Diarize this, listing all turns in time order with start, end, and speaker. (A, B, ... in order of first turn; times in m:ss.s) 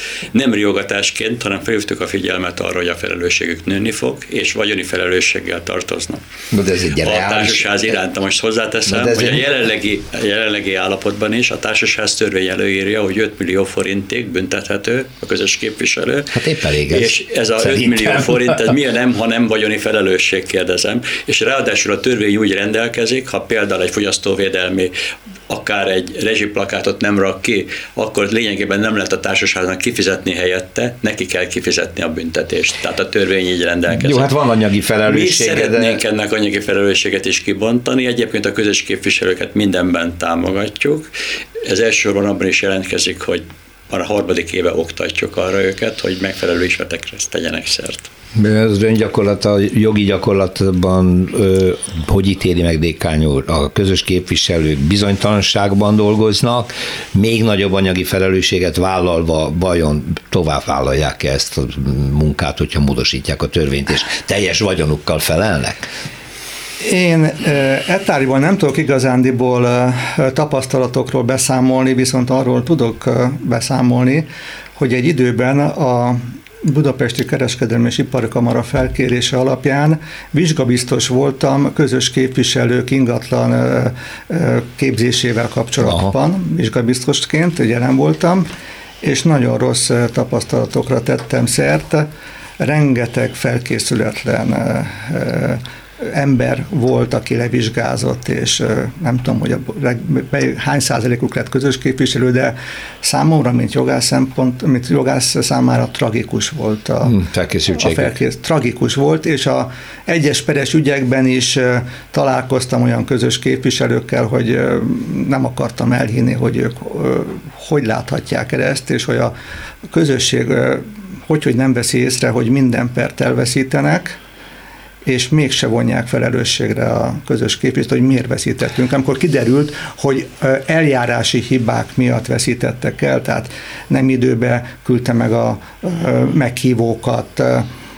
0:00.3-0:06.2 A
0:06.5-0:08.0 B
0:07.0-0:24.9 A
0:08.9-0:09.4 B
0:16.3-0:18.7 B
0:25.5-0:34.3 A
0:33.9-0:36.0 B
0:35.1-0:41.1 A
0:41.6-0:48.1 A
0:48.3-1:05.9 B
1:06.8-1:28.5 C
1:25.8-1:26.1 B
1:29.0-1:32.1 C
1:32.6-1:47.2 C
1:47.0-1:48.1 B
1:47.8-1:59.3 C
1:59.9-2:04.2 C
2:05.0-2:17.7 C